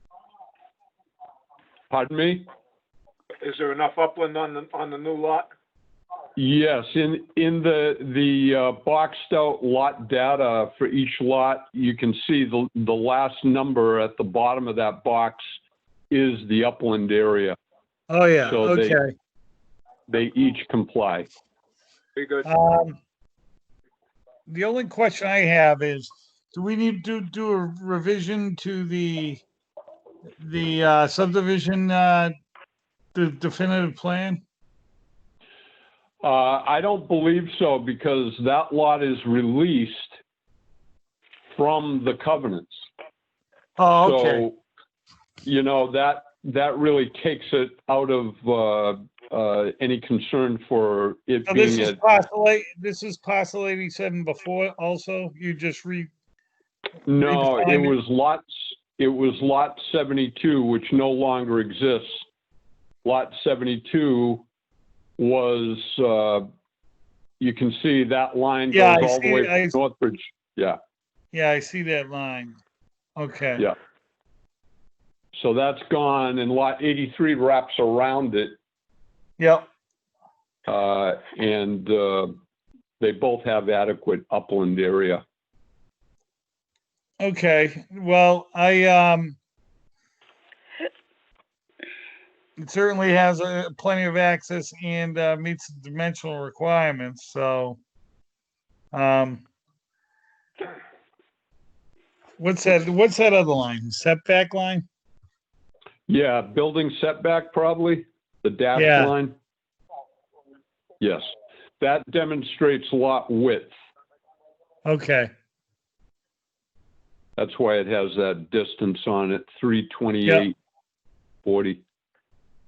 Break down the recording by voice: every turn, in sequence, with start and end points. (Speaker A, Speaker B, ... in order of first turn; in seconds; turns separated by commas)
Speaker A: 1.9-2.5, Speaker B: 3.4-5.5, Speaker A: 6.3-15.6, Speaker A: 16.1-17.6, Speaker C: 18.1-19.1, Speaker A: 18.4-19.0, Speaker A: 20.1-21.3, Speaker B: 22.2-22.5, Speaker C: 22.4-23.0, Speaker C: 24.5-29.4, Speaker C: 30.4-32.3, Speaker C: 33.1-34.4, Speaker A: 36.2-40.2, Speaker A: 41.5-42.8, Speaker C: 43.8-44.5, Speaker A: 44.0-44.6, Speaker A: 45.4-52.0, Speaker C: 51.5-56.1, Speaker A: 57.1-62.3, Speaker C: 57.2-58.0, Speaker A: 63.0-64.5, Speaker A: 65.2-66.5, Speaker A: 67.4-70.8, Speaker C: 68.7-69.8, Speaker C: 71.3-72.6, Speaker C: 73.2-73.7, Speaker A: 75.4-78.5, Speaker C: 79.4-79.7, Speaker A: 80.7-82.3, Speaker A: 83.0-85.2, Speaker C: 87.2-89.4, Speaker C: 92.6-97.8, Speaker C: 98.9-99.5, Speaker C: 102.4-104.8, Speaker A: 106.1-109.4, Speaker C: 108.7-109.1, Speaker A: 111.0-111.2, Speaker A: 111.8-113.7, Speaker C: 114.8-115.3, Speaker A: 117.4-120.6, Speaker C: 120.2-120.5, Speaker A: 121.4-121.8